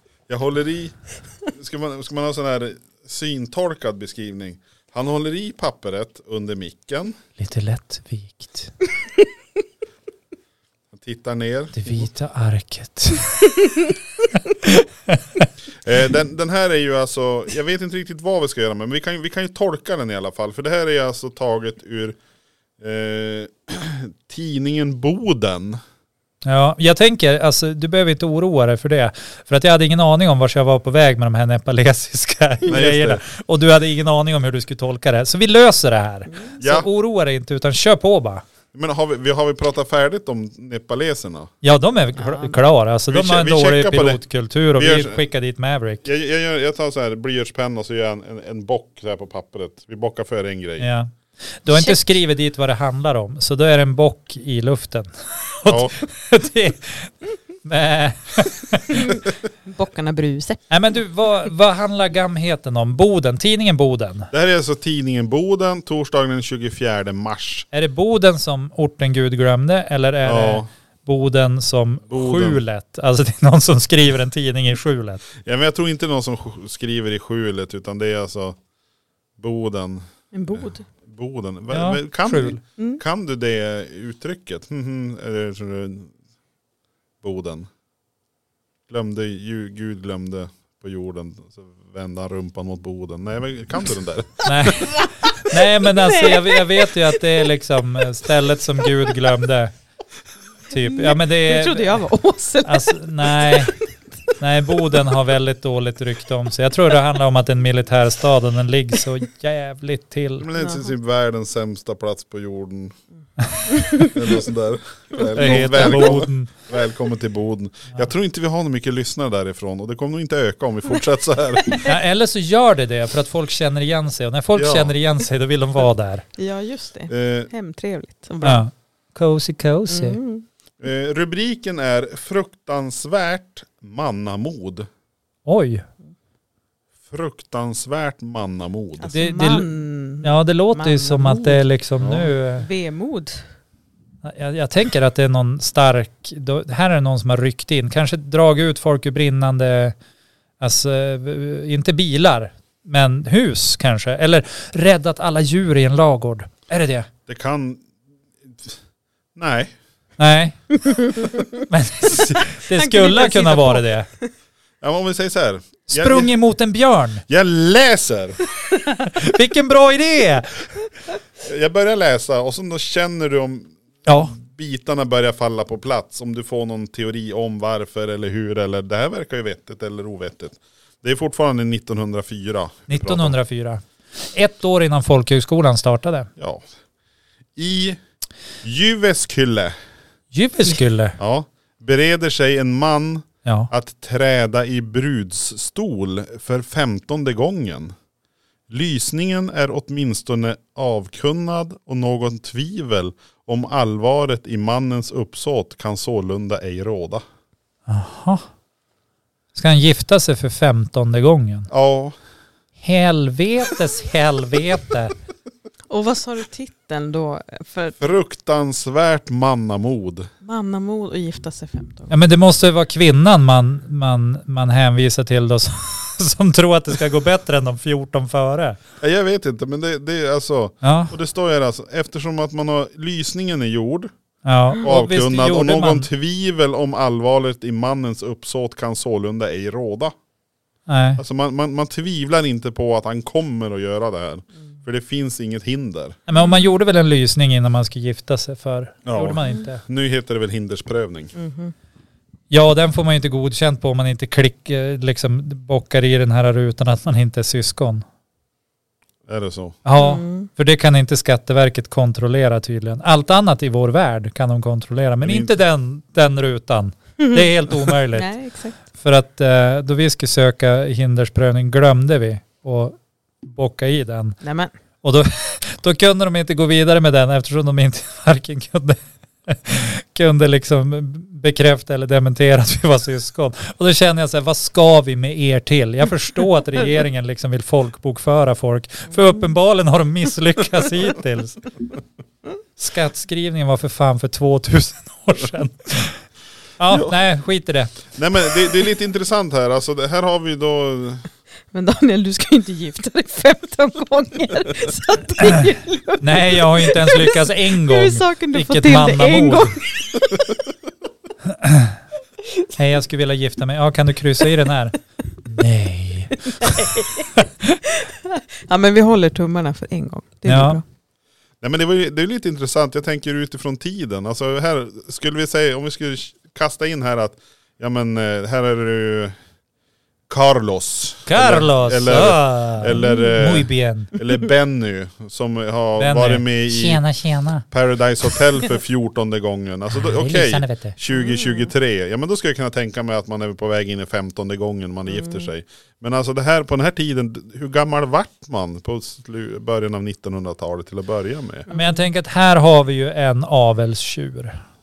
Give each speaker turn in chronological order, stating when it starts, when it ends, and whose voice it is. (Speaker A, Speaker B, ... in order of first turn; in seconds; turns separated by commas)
Speaker A: 0.3-0.9, Speaker A: 1.5-7.2, Speaker B: 7.4-8.7, Speaker A: 10.9-12.1, Speaker B: 11.7-13.5, Speaker B: 14.6-15.5, Speaker A: 15.8-22.2, Speaker A: 22.8-25.8, Speaker B: 26.4-38.4, Speaker A: 32.7-33.2, Speaker A: 36.6-36.9, Speaker A: 38.7-41.5, Speaker B: 41.6-46.1, Speaker C: 42.2-42.6, Speaker A: 43.1-44.2, Speaker A: 44.8-45.2, Speaker A: 46.0-50.9, Speaker B: 50.8-51.1, Speaker B: 51.6-59.2, Speaker C: 51.7-52.0, Speaker A: 55.7-55.9, Speaker C: 58.9-60.7, Speaker B: 60.7-64.3, Speaker A: 64.3-67.7, Speaker B: 67.7-75.2, Speaker A: 70.2-70.7, Speaker A: 72.1-72.6, Speaker A: 75.4-78.6, Speaker A: 79.4-86.1, Speaker C: 80.3-80.8, Speaker B: 81.7-82.6, Speaker A: 87.2-87.7, Speaker A: 88.9-94.9, Speaker B: 94.4-99.7, Speaker C: 96.0-96.9, Speaker B: 100.7-102.0, Speaker C: 100.8-103.7, Speaker B: 102.7-103.8, Speaker B: 104.4-110.5, Speaker A: 110.4-113.0, Speaker C: 110.5-110.9, Speaker C: 113.7-114.2, Speaker A: 114.0-121.8, Speaker C: 115.2-116.1, Speaker B: 115.3-116.5, Speaker B: 121.8-126.2, Speaker A: 124.6-124.9, Speaker C: 126.4-128.6, Speaker A: 127.1-127.5, Speaker B: 128.4-130.2, Speaker C: 129.9-130.4, Speaker A: 130.8-134.9, Speaker B: 135.5-135.9, Speaker A: 137.1-139.1, Speaker C: 139.0-141.6, Speaker B: 139.1-139.7, Speaker B: 140.2-142.7, Speaker A: 142.0-142.3, Speaker C: 142.6-143.4, Speaker B: 144.2-150.0, Speaker B: 150.6-157.1, Speaker A: 157.3-157.8, Speaker A: 158.5-158.8, Speaker A: 159.3-159.7, Speaker B: 160.2-160.6, Speaker C: 160.8-161.6, Speaker B: 161.7-164.1, Speaker C: 162.7-164.3, Speaker A: 164.8-166.3, Speaker B: 165.9-167.2, Speaker A: 167.3-168.4, Speaker B: 169.0-170.7, Speaker A: 171.4-183.4, Speaker B: 174.1-174.3, Speaker B: 182.9-186.3, Speaker A: 186.4-186.7, Speaker A: 187.6-188.0, Speaker A: 188.6-189.8, Speaker B: 190.3-191.2, Speaker A: 191.2-197.9, Speaker B: 193.4-193.7, Speaker A: 198.7-207.2, Speaker B: 207.9-208.4, Speaker B: 209.5-211.7, Speaker A: 211.7-212.2, Speaker B: 212.8-215.2, Speaker C: 215.9-218.0, Speaker A: 218.0-220.3, Speaker C: 220.4-222.1, Speaker B: 222.1-228.8, Speaker A: 229.0-234.1, Speaker B: 230.8-231.1, Speaker B: 234.4-236.1, Speaker A: 234.8-240.1, Speaker B: 240.9-241.2, Speaker A: 241.2-246.2, Speaker B: 246.3-249.8, Speaker A: 249.1-251.3, Speaker C: 251.3-251.7, Speaker B: 252.5-258.1, Speaker A: 259.3-259.8, Speaker B: 259.9-268.3, Speaker C: 260.0-260.5, Speaker A: 265.2-265.5, Speaker C: 268.1-268.8, Speaker B: 269.0-274.4, Speaker C: 274.4-274.7, Speaker B: 275.0-291.7, Speaker B: 292.8-296.2, Speaker B: 296.8-298.0, Speaker A: 296.9-297.2, Speaker A: 298.1-301.2, Speaker C: 301.7-310.5, Speaker B: 306.2-309.8, Speaker B: 311.4-312.0, Speaker B: 312.8-317.8, Speaker C: 316.4-320.8, Speaker B: 320.5-320.8, Speaker A: 321.6-329.4, Speaker A: 330.3-337.0, Speaker B: 331.3-334.1, Speaker C: 333.0-333.4, Speaker B: 336.0-337.6, Speaker A: 337.7-351.7, Speaker B: 339.9-341.0, Speaker C: 341.1-341.7, Speaker C: 345.1-345.5, Speaker C: 351.7-352.0, Speaker B: 351.7-354.6